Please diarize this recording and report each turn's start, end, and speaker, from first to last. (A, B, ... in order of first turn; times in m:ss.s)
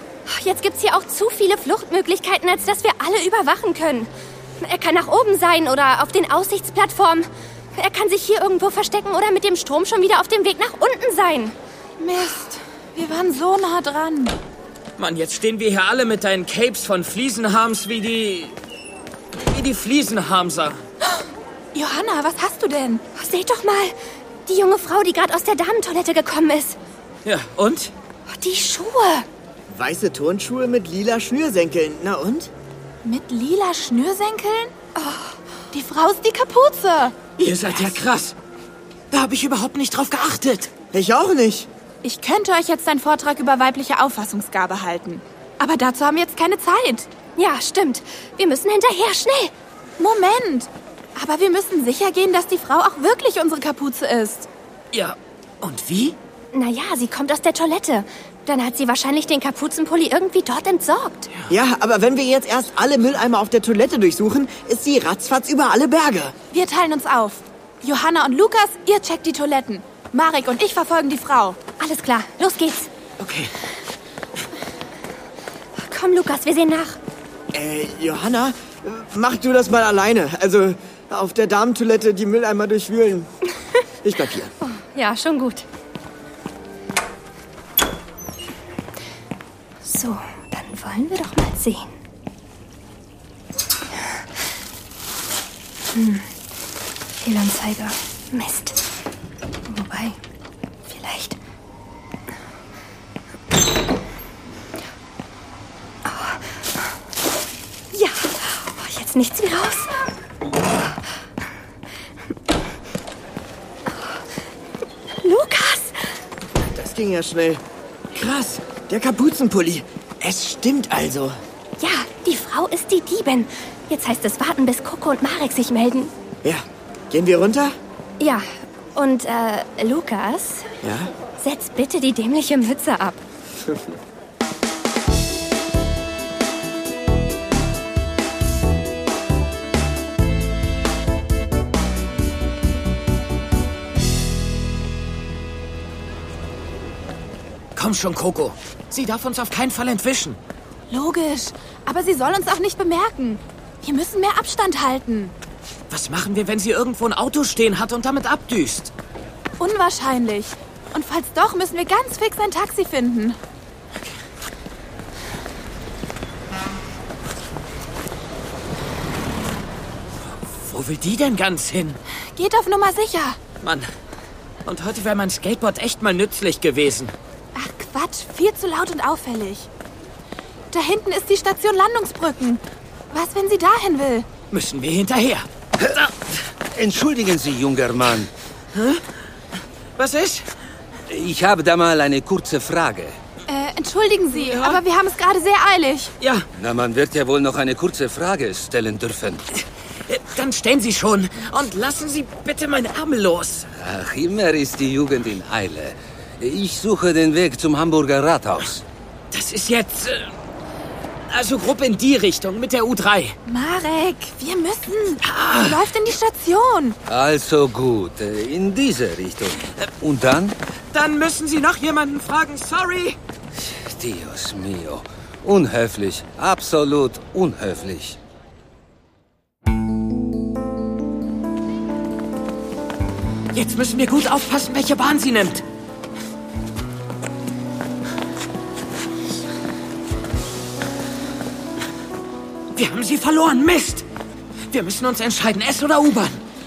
0:00.3-0:11.6 A
0:12.0-0:14.4 B
0:15.0-0:18.6 C
0:19.4-0:20.8 C
0:21.7-0:23.0 B
0:23.2-0:24.0 A
0:24.5-0:26.8 A
0:27.2-0:27.9 C
0:28.3-0:29.3 A
0:29.7-0:32.5 D
0:33.0-0:34.8 B
0:35.0-0:35.4 A
0:35.7-0:37.2 B
0:37.4-0:38.4 C
0:39.1-0:40.7 C
0:40.9-0:41.7 D
0:42.0-0:47.1 B
0:47.4-0:49.5 A
0:50.0-0:54.5 B
0:54.9-0:56.2 C
0:56.5-1:01.3 A
1:01.5-1:06.4 D
1:06.5-1:11.6 B
1:11.8-1:12.9 A
1:15.8-1:17.0 A
1:17.5-1:23.3 D
1:24.0-1:24.5 D
1:24.6-1:25.6 A
1:29.8-1:31.9 A
1:35.9-1:36.3 A
1:37.2-1:38.8 A
1:39.7-1:40.2 A
1:40.9-1:41.4 A
1:46.1-1:46.4 A
1:47.9-1:49.9 A
1:53.9-1:54.2 A
1:55.2-1:56.0 A
1:56.8-1:57.6 D
1:58.1-2:01.4 D
2:01.8-2:06.1 A
2:06.4-2:07.8 D
2:08.2-2:10.7 A
2:10.8-2:11.1 D
2:11.4-2:13.2 A
2:27.8-2:30.4 C
2:30.9-2:35.3 B
2:35.9-2:38.9 C
2:39.6-2:43.4 B
2:50.4-2:52.0 C
2:52.4-2:53.4 B
2:53.6-2:53.9 C
2:54.6-2:57.1 C
2:57.6-2:59.7 B
3:00.7-3:04.3 B
3:04.5-3:06.1 C
3:06.7-3:08.3 E
3:08.7-3:09.0 C
3:10.0-3:10.5 C
3:11.1-3:13.2 E
3:13.5-3:16.1 B
3:14.3-3:14.8 C
3:16.2-3:16.5 C
3:16.5-3:19.4 E
3:19.6-3:23.7 C
3:23.8-3:28.8 E
3:29.3-3:30.3 C
3:31.3-3:33.4 C
3:33.5-3:37.0 B
3:35.2-3:35.9 C
3:37.1-3:40.6 E
3:40.9-3:43.2 C
3:43.8-3:48.2 E
3:53.5-3:55.6 C
4:02.8-4:04.1 C
4:04.7-4:06.4 C